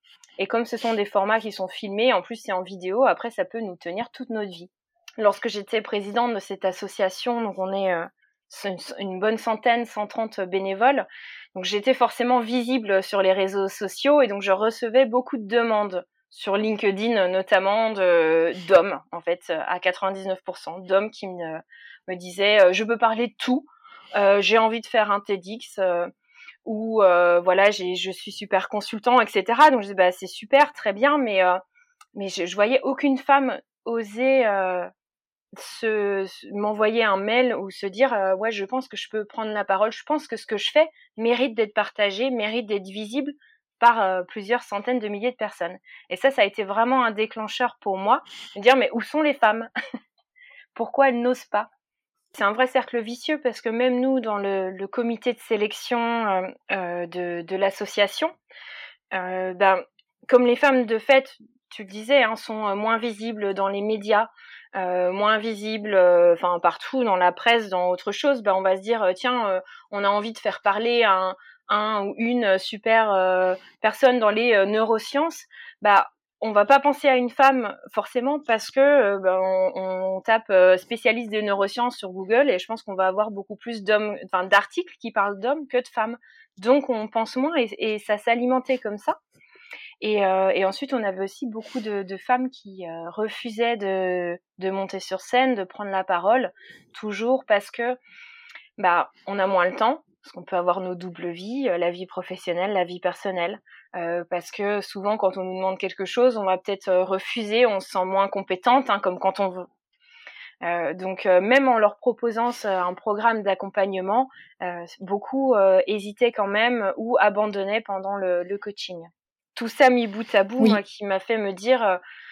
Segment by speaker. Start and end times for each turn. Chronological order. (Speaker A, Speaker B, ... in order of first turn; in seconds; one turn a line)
Speaker A: 0.4-26.1
Speaker A: 26.6-31.6
Speaker A: 32.1-34.9
Speaker A: 35.5-49.7
Speaker A: 50.8-51.7
Speaker A: 52.3-58.3
Speaker A: 59.1-89.2
Speaker A: 90.0-98.0
Speaker A: 98.8-109.7
Speaker A: 110.6-122.0